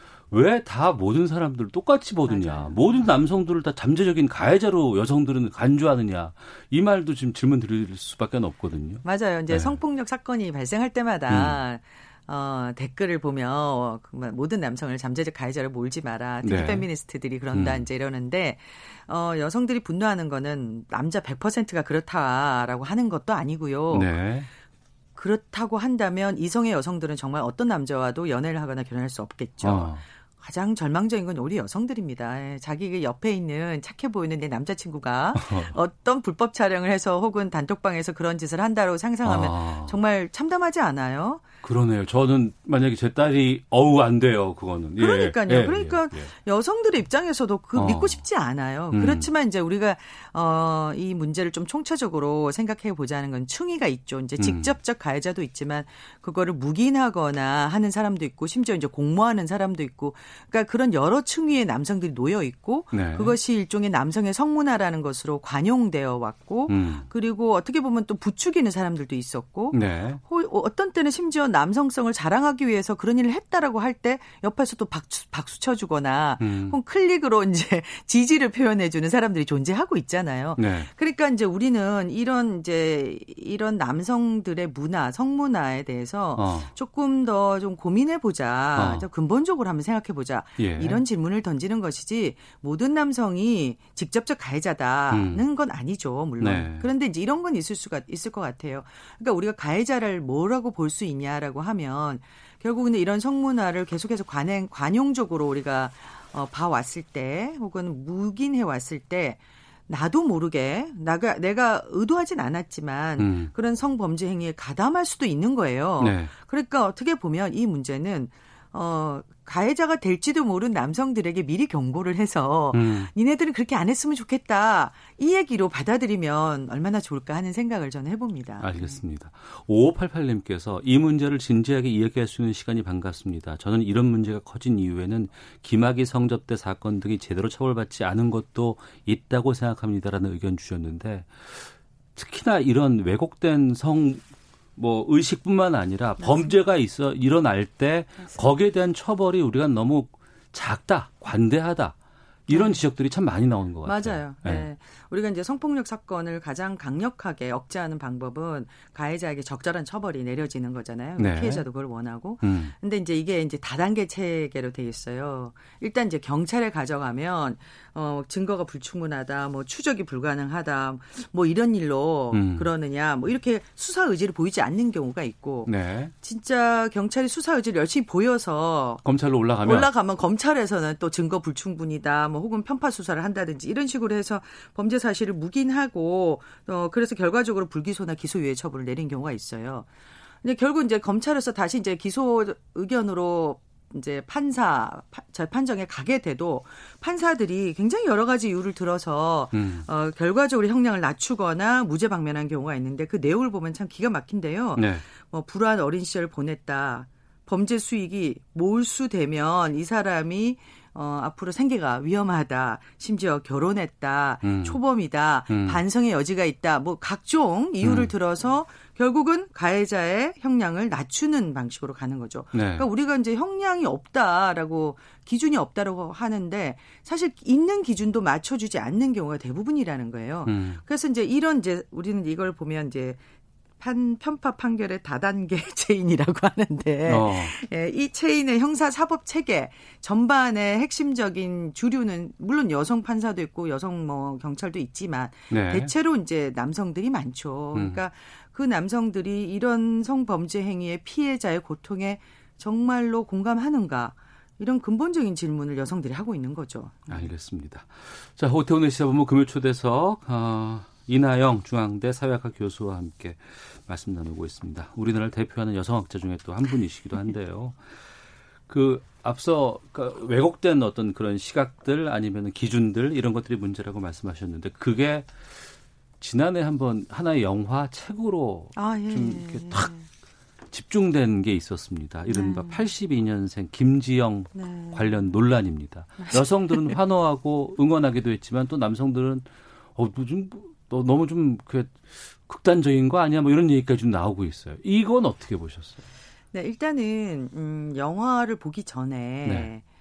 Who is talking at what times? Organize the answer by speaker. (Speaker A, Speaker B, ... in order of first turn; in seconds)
Speaker A: 0.3-9.8, 11.3-11.6, 16.4-16.9, 17.5-17.9, 23.9-24.5, 29.6-30.0, 35.3-35.7, 39.2-40.0, 41.6-46.3, 47.7-48.2, 48.9-49.3, 54.4-54.7, 62.9-63.4, 66.7-67.1, 69.7-70.2, 76.4-76.8, 80.6-80.9, 86.4-86.7, 88.7-89.0, 90.6-91.0, 95.1-95.4, 96.4-96.9, 113.2-113.5, 116.0-116.3, 122.7-123.1, 128.6-144.2, 144.8-151.9, 152.5-154.7, 161.2-161.7, 162.4-162.7, 172.3-172.7, 175.7-176.1, 179.0-179.9, 199.5-199.8, 204.8-205.0, 214.4-214.8, 215.5-215.8, 217.8-218.1, 222.5-222.8, 230.4-230.8, 237.1-237.5, 245.5-245.9, 247.7-248.0, 257.1-267.8, 268.7-275.3, 276.2-279.9, 280.7-296.0, 299.4-299.7
Speaker B: 2.2-3.1, 9.0-24.1, 25.1-41.4, 45.0-129.0, 146.2-146.6, 152.5-152.8, 153.8-179.0, 179.6-189.9, 190.4-233.2, 233.8-257.3, 278.7-280.1, 282.2-282.9, 284.5-285.3, 286.2-287.0, 296.5-299.8